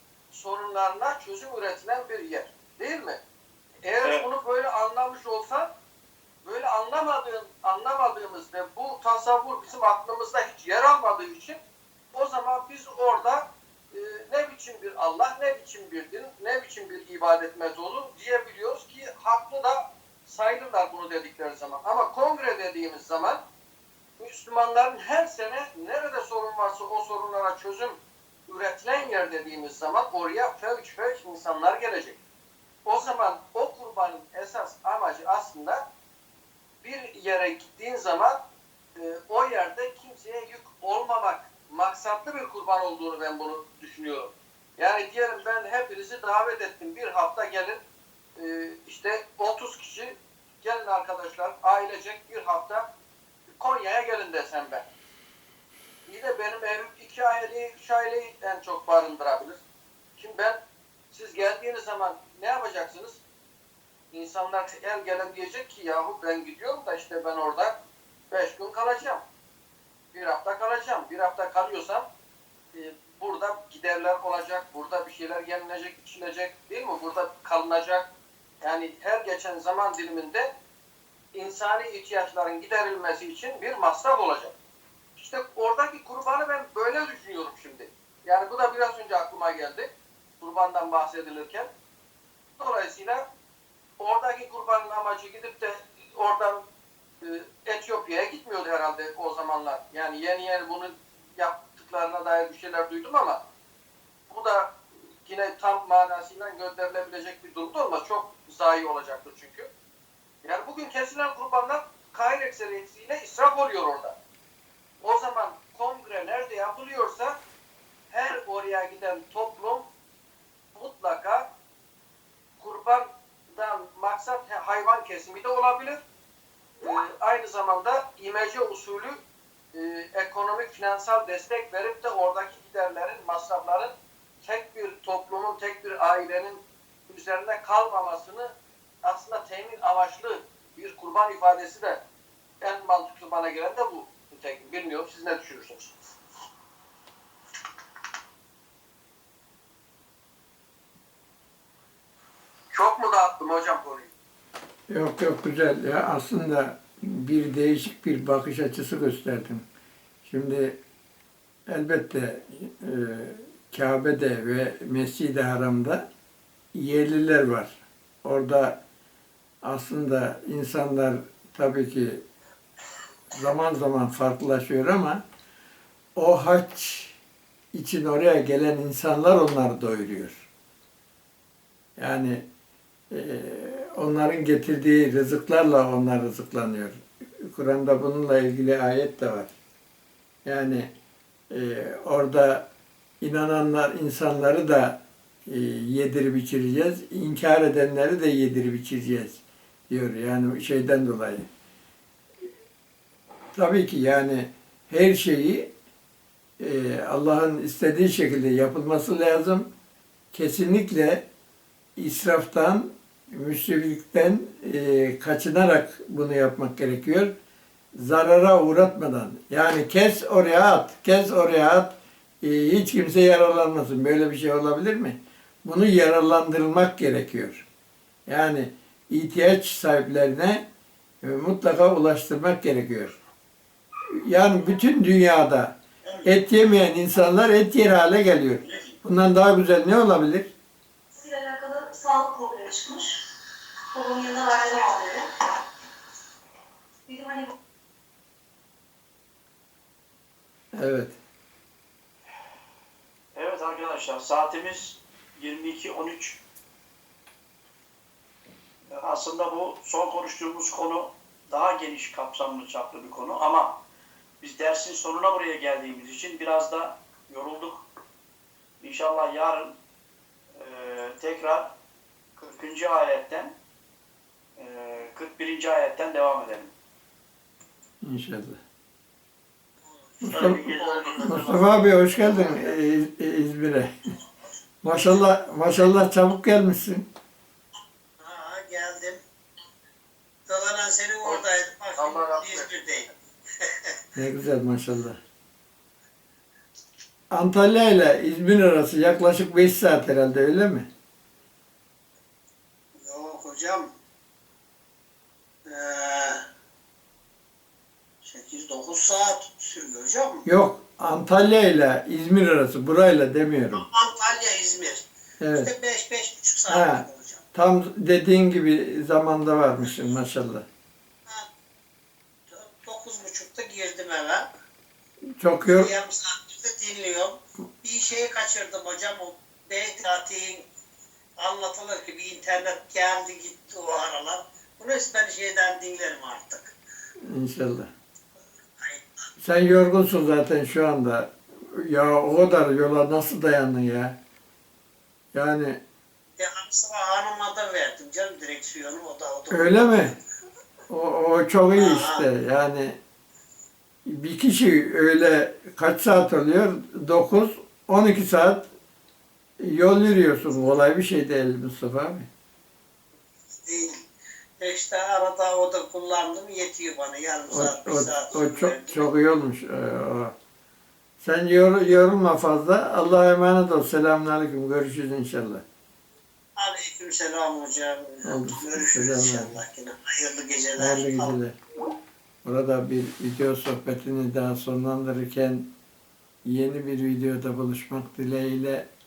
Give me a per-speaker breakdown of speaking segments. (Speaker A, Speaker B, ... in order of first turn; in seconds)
Speaker A: 0.3-3.2, 3.9-5.7, 6.5-11.6, 12.1-23.4, 24.2-32.2, 32.9-35.8, 36.8-38.4, 39.0-47.8, 48.4-52.8, 53.5-54.9, 56.1-59.6, 60.2-60.6, 61.1-63.2, 64.1-67.7, 68.3-69.2, 70.1-72.0, 72.7-78.1, 78.6-80.5, 81.3-84.5, 85.2-89.9, 90.4-91.7, 92.6-93.2, 94.0-96.6, 97.2-103.4, 104.3-109.7, 110.4-114.2, 115.0-117.3, 118.1-119.8, 120.8-121.5, 122.6-126.0, 126.8-129.2, 129.7-133.9, 134.4-138.5, 139.0-142.0, 142.6-145.9, 152.7-154.1, 292.0-292.9
Speaker B: 154.9-159.6, 160.2-160.8, 161.7-166.0, 166.7-168.8, 169.6-172.2, 173.3-175.2, 176.2-177.2, 177.7-180.5, 182.0-182.4, 183.1-189.5, 190.4-190.9, 191.5-192.7, 193.2-201.5, 203.5-205.7, 206.6-209.7, 210.3-211.3, 212.0-217.3, 218.0-227.7, 228.3-230.6, 231.2-233.2, 234.2-240.5, 250.8-251.2, 278.0-278.6, 280.2-283.9, 284.8-287.1, 294.2-295.2, 297.3-300.9, 310.5-313.8, 315.4-315.7, 316.7-320.7, 325.4-325.9, 337.3-337.9, 339.4-344.2, 345.3-345.8, 349.5-350.1, 350.9-353.0, 354.1-358.7, 359.6-362.3, 367.5-370.4, 371.2-375.6, 378.2-379.6, 380.8-381.6, 382.4-385.7, 386.4-388.9
Speaker C: 241.2-243.2, 243.9-245.3, 247.1-247.5
Speaker D: 253.3-256.4, 258.9-263.8, 264.4-267.9, 268.8-269.8, 270.6-271.8, 272.4-273.6, 274.6-276.7, 280.2-282.0
Speaker E: 279.8-281.1, 288.2-289.2, 290.5-293.1, 293.6-294.0, 303.0-303.9, 305.7-306.4, 308.2-310.4, 313.7-315.0, 315.6-317.4, 322.5-324.4, 325.6-330.6, 331.4-336.7, 338.8-339.1, 346.4-350.1, 351.7-352.2, 363.5-363.9, 364.6-369.1, 376.6-381.3